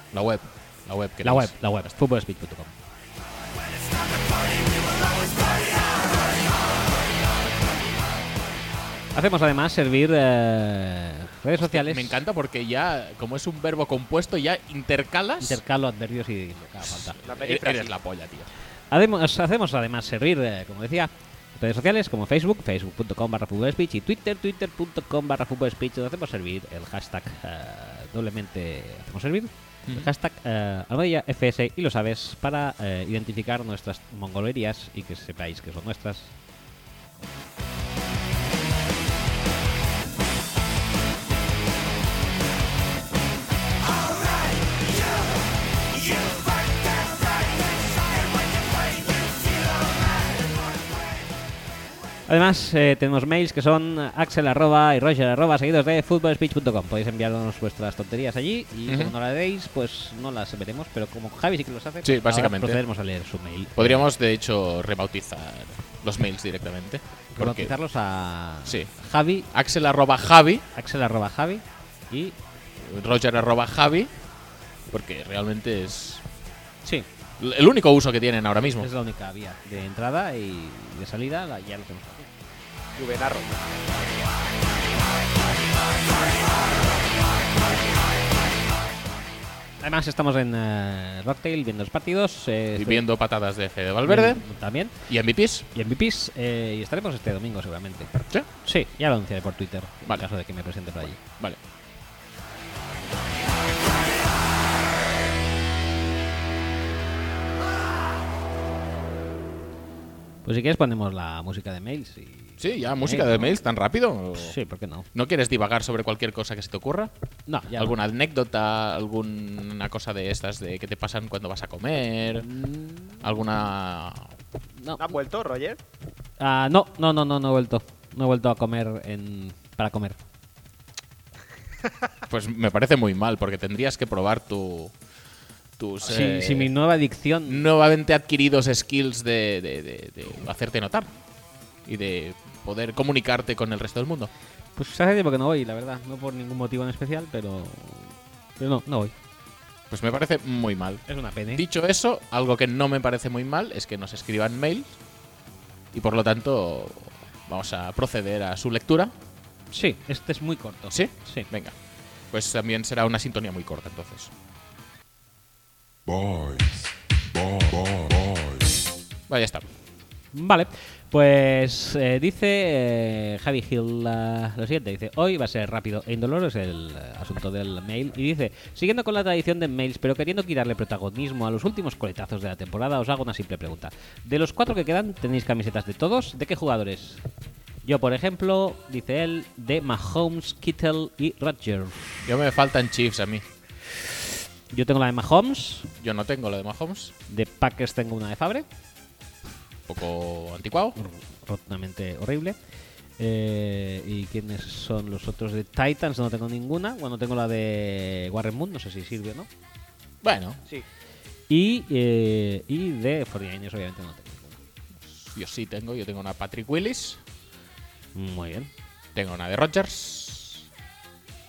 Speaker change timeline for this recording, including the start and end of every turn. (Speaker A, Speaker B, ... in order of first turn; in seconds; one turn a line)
Speaker A: 0.1-1.5
Speaker B: 1.2-2.8
Speaker B: 9.1-12.2
Speaker A: 11.6-15.6
Speaker B: 15.4-17.1
Speaker A: 16.8-18.5
Speaker C: 17.2-17.9
Speaker B: 18.9-36.3
Speaker B: 52.3-64.1
Speaker A: 58.9-59.1
Speaker A: 62.0-62.8
Speaker A: 63.8-67.7
Speaker B: 67.3-69.5
Speaker A: 68.7-68.9
Speaker A: 69.5-70.6
Speaker B: 70.7-72.3
Speaker A: 72.8-74.1
Speaker A: 74.9-76.2
Speaker A: 77.4-78.9
Speaker B: 78.8-82.3
Speaker C: 83.0-84.0
Speaker B: 89.8-93.0
Speaker A: 92.8-94.5
Speaker B: 94.0-94.9
Speaker A: 95.1-95.7
Speaker B: 95.7-101.2
Speaker B: 110.4-113.5
Speaker A: 112.6-114.5
Speaker B: 114.4-115.1
Speaker A: 115.1-117.1
Speaker B: 117.5-118.0
Speaker A: 117.7-122.5
Speaker B: 122.3-123.5
Speaker A: 123.2-124.3
Speaker B: 124.8-125.2
Speaker C: 125.0-125.8
Speaker B: 126.4-130.2
Speaker A: 132.3-134.9
Speaker A: 135.8-136.7
Speaker B: 136.1-137.7
Speaker A: 137.5-141.1
Speaker A: 141.9-144.3
Speaker B: 144.8-149.1
Speaker A: 149.9-151.0
Speaker B: 151.1-151.6
Speaker A: 151.5-155.0
Speaker A: 155.9-159.1
Speaker B: 159.7-161.5
Speaker A: 160.9-161.7
Speaker A: 162.3-164.3
Speaker D: 166.1-168.8
Speaker A: 169.3-169.6
Speaker B: 170.3-187.2
Speaker B: 187.8-192.2
Speaker A: 192.2-193.4
Speaker B: 194.1-195.9
Speaker A: 196.0-197.1
Speaker B: 197.3-198.7
Speaker A: 199.9-200.9
Speaker B: 200.9-202.6
Speaker B: 203.2-209.5
Speaker A: 210.2-210.6
Speaker B: 211.5-214.6
Speaker A: 215.1-217.2
Speaker B: 218.1-218.7
Speaker A: 219.1-220.7